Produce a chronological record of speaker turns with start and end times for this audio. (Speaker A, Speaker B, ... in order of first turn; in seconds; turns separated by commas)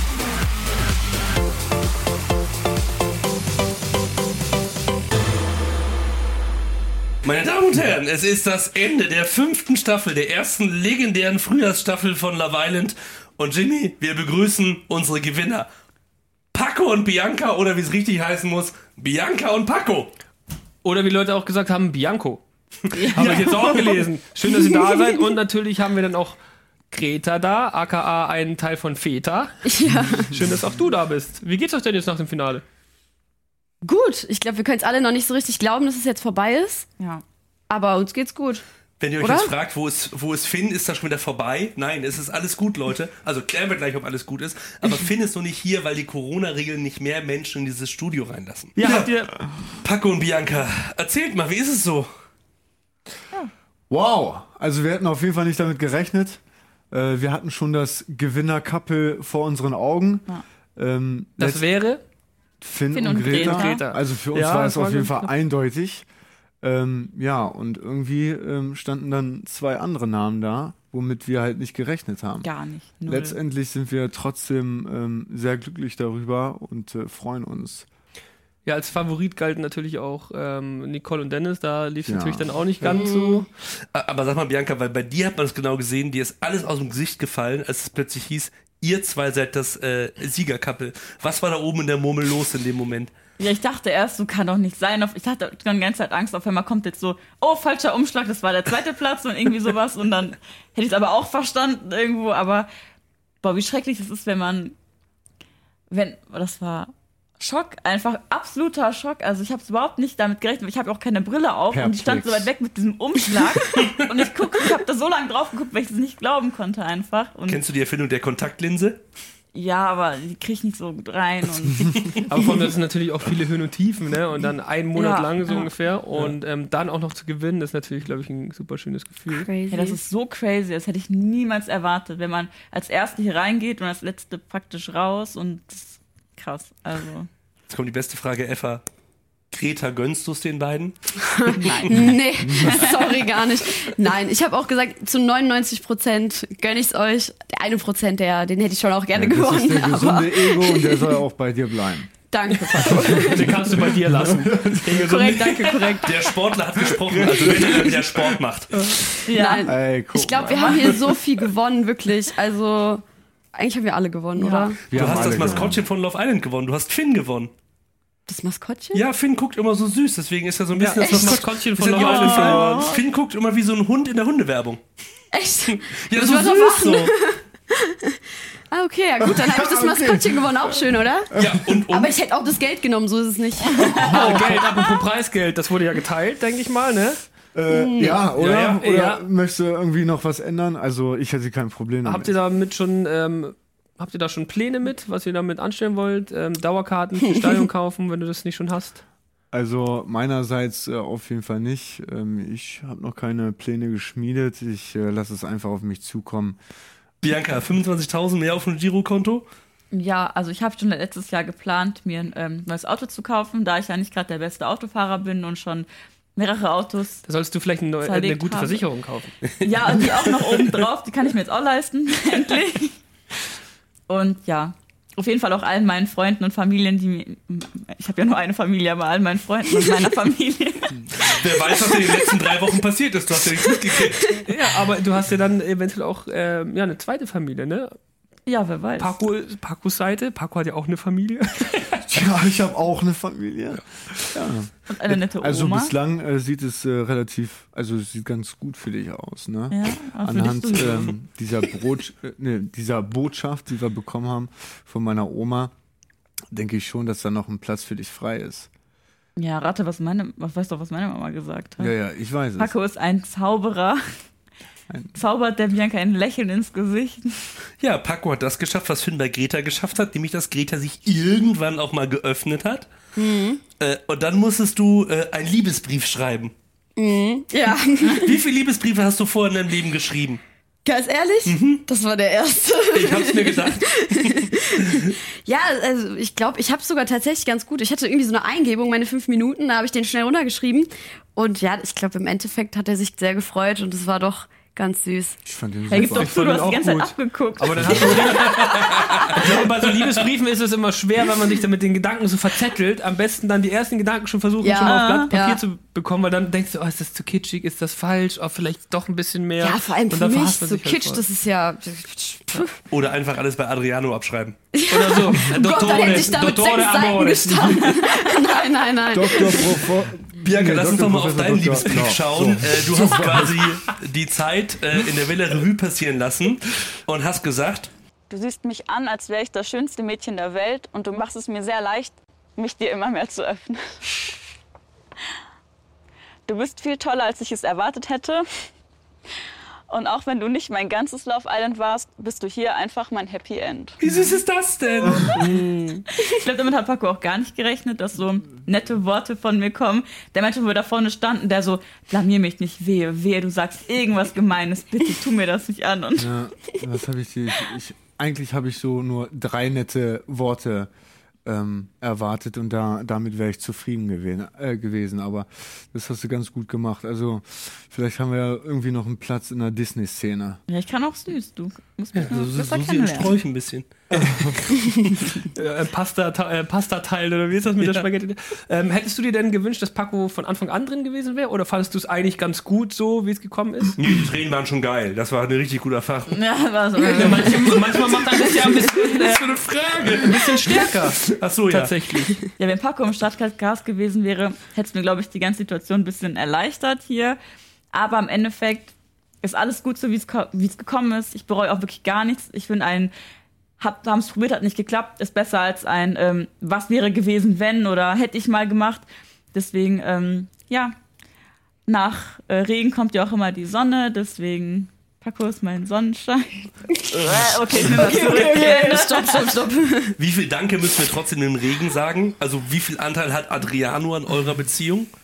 Speaker A: 7.2-15.7, Speaker A: 16.5-20.1, Speaker B: 20.8-22.4, Speaker C: 23.0-23.7, Speaker B: 23.1-26.4, Speaker A: 23.1-23.9, Speaker D: 24.5-25.2, Speaker B: 26.9-29.6, Speaker D: 29.6-30.4, Speaker E: 29.9-30.7, Speaker B: 30.4-32.6, Speaker D: 33.8-36.9, Speaker D: 37.7-38.6, Speaker A: 39.0-49.1, Speaker D: 39.2-39.5, Speaker B: 48.8-49.3, Speaker A: 49.8-52.1, Speaker E: 53.9-56.4, Speaker E: 56.9-61.6, Speaker B: 61.4-62.0, Speaker E: 62.6-66.1, Speaker C: 62.9-63.9, Speaker B: 63.3-65.3, Speaker E: 66.6-72.5, Speaker C: 72.4-73.4, Speaker E: 73.1-77.9, Speaker B: 78.7-83.5, Speaker E: 82.0-83.0, Speaker D: 82.8-83.5, Speaker A: 83.9-93.1, Speaker C: 93.4-102.7, Speaker C: 103.4-104.8, Speaker C: 105.9-117.6, Speaker E: 111.7-112.5, Speaker A: 117.5-119.0, Speaker C: 119.5-122.2, Speaker B: 122.3-129.4, Speaker C: 125.0-125.7, Speaker D: 129.3-130.0, Speaker C: 129.7-137.3, Speaker A: 137.7-138.8, Speaker A: 139.5-141.0, Speaker D: 141.2-151.2, Speaker C: 141.6-142.7, Speaker E: 142.4-142.9, Speaker E: 149.2-152.1, Speaker D: 152.3-153.9, Speaker E: 152.8-155.0, Speaker B: 152.8-156.0, Speaker D: 154.9-156.4, Speaker A: 156.0-158.8, Speaker E: 157.4-158.2, Speaker D: 157.5-157.9, Speaker E: 158.8-160.9, Speaker C: 159.2-159.7, Speaker D: 159.3-165.3, Speaker C: 160.4-160.9, Speaker C: 164.4-164.7, Speaker E: 164.9-165.8, Speaker A: 164.9-167.5, Speaker D: 168.3-169.1, Speaker A: 168.9-174.8, Speaker B: 170.7-172.9, Speaker D: 171.0-171.5, Speaker C: 172.0-173.0, Speaker D: 172.2-172.6, Speaker D: 175.3-178.2, Speaker A: 175.7-177.1, Speaker D: 178.7-181.3, Speaker E: 179.2-181.6, Speaker A: 181.3-182.2, Speaker D: 181.9-184.1, Speaker E: 183.8-184.7, Speaker C: 183.8-185.0, Speaker B: 184.1-187.2, Speaker E: 187.5-192.3, Speaker D: 187.7-188.3, Speaker A: 188.4-188.8, Speaker B: 188.4-189.2, Speaker B: 192.1-199.0, Speaker E: 199.5-206.6, Speaker A: 207.2-209.5, Speaker C: 209.9-217.2, Speaker B: 217.2-219.3, Speaker C: 218.0-218.8, Speaker C: 219.6-223.0, Speaker C: 224.1-231.1, Speaker A: 231.1-234.4, Speaker B: 234.4-238.0, Speaker C: 238.5-239.2, Speaker B: 239.0-242.0, Speaker E: 242.1-255.7, Speaker C: 244.9-245.9, Speaker C: 249.7-251.2, Speaker E: 256.5-258.7, Speaker C: 259.4-261.9, Speaker E: 261.8-262.8, Speaker C: 262.6-264.0, Speaker E: 264.9-265.2, Speaker C: 265.1-267.6, Speaker A: 267.8-272.9, Speaker D: 273.2-273.6, Speaker A: 273.8-276.5, Speaker D: 277.0-278.4, Speaker A: 278.1-280.4, Speaker D: 280.9-295.4, Speaker A: 281.4-281.8, Speaker A: 282.9-284.9, Speaker E: 295.5-296.4, Speaker C: 295.9-299.2, Speaker B: 296.1-311.2, Speaker A: 298.7-300.1, Speaker D: 304.6-305.6, Speaker C: 304.8-305.3, Speaker D: 309.6-312.8, Speaker A: 312.9-314.6, Speaker D: 314.7-319.8, Speaker B: 314.9-317.9, Speaker E: 319.1-323.8, Speaker A: 320.4-327.9, Speaker C: 328.3-334.3, Speaker C: 336.5-338.4, Speaker C: 339.9-344.0, Speaker A: 344.0-345.4, Speaker C: 345.1-345.4, Speaker C: 346.1-356.4, Speaker E: 356.2-360.9, Speaker E: 361.4-370.6, Speaker C: 370.7-373.4, Speaker A: 372.2-374.4, Speaker E: 374.3-374.6, Speaker B: 375.5-384.0, Speaker A: 377.8-378.1, Speaker A: 384.0-386.4, Speaker C: 386.3-388.1, Speaker B: 387.0-392.4, Speaker A: 390.0-390.3, Speaker A: 391.3-391.9, Speaker C: 392.6-397.4, Speaker C: 397.9-403.1, Speaker C: 403.8-410.9, Speaker C: 411.9-419.6, Speaker D: 417.7-420.2, Speaker A: 420.2-425.1